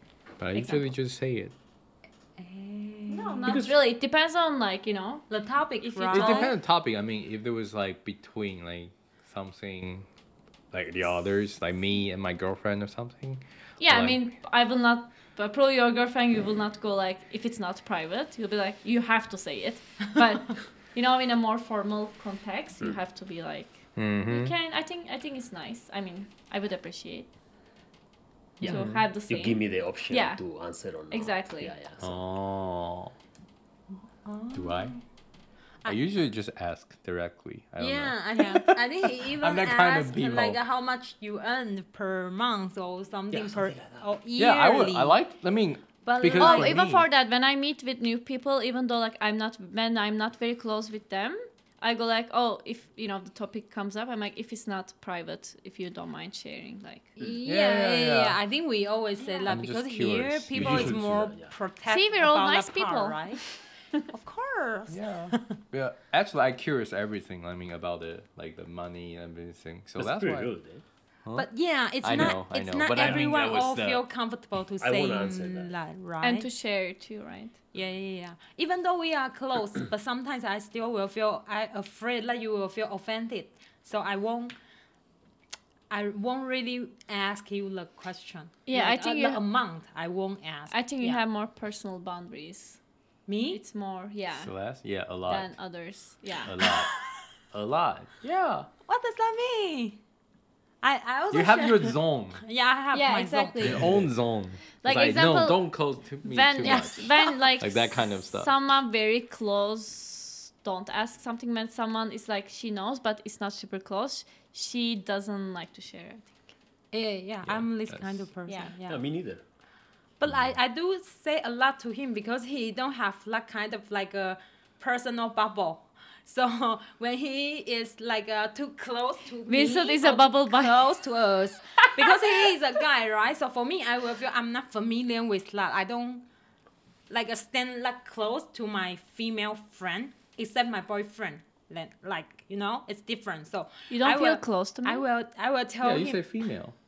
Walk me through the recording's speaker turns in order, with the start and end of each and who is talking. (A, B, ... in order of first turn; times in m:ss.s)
0:00.4-0:01.5 A
0:00.5-0:00.9 B
0:02.4-0:03.5 C
0:03.1-0:05.2 B
0:03.4-0:03.8 D
0:05.3-0:06.5 C
0:05.8-0:06.5 B
0:06.1-0:10.1 A
0:10.7-0:14.3 A
0:13.8-0:27.3 B
0:24.0-0:24.5 A
0:28.6-0:32.2 D
0:28.6-0:29.0 A
0:28.6-0:30.4 B
0:31.1-0:31.7 B
0:32.0-0:33.1 A
0:34.2-0:35.0 C
0:34.5-0:34.9 A
0:35.8-0:40.6 A
0:37.8-0:45.2 C
0:43.3-0:44.1 D
0:44.4-0:47.0 A
0:46.0-0:46.8 C
0:46.4-0:57.1 B
0:57.2-1:03.4 C
0:57.4-0:58.4 A
0:59.2-0:59.5 B
0:59.5-1:01.1 A
1:00.5-1:01.5 D
1:01.9-1:03.4 B
1:04.1-1:05.4 C
1:04.9-1:10.5 A
1:10.0-1:10.8 D
1:11.4-1:16.5 C
1:12.0-1:14.0 A
1:13.0-1:13.6 D
1:14.8-1:15.7 D
1:16.2-1:17.6 B
1:17.7-1:24.5 C
1:25.9-1:31.2 C
1:28.6-1:29.4 B
1:30.7-1:32.8 B
1:33.3-1:33.6 C
1:33.5-1:34.5 B
1:34.4-1:35.5 A
1:35.3-1:36.5 B
1:36.4-1:36.9 A
1:36.6-1:37.0 C
1:37.5-1:38.7 A
1:38.8-1:40.0 C
1:40.8-1:43.8 C
1:41.3-1:42.4 A
1:42.9-1:43.8 B
1:43.6-1:48.5 A
1:44.8-1:45.6 B
1:46.2-1:56.5 B
1:46.6-1:47.3 C
1:56.9-1:59.0 C
1:57.4-1:58.2 A
1:58.4-1:58.7 B
1:58.9-1:59.4 D
2:00.2-2:16.2 C
2:09.5-2:10.8 B
2:11.8-2:12.4 B
2:17.1-2:26.2 C
2:23.9-2:25.0 B
2:25.8-2:26.8 A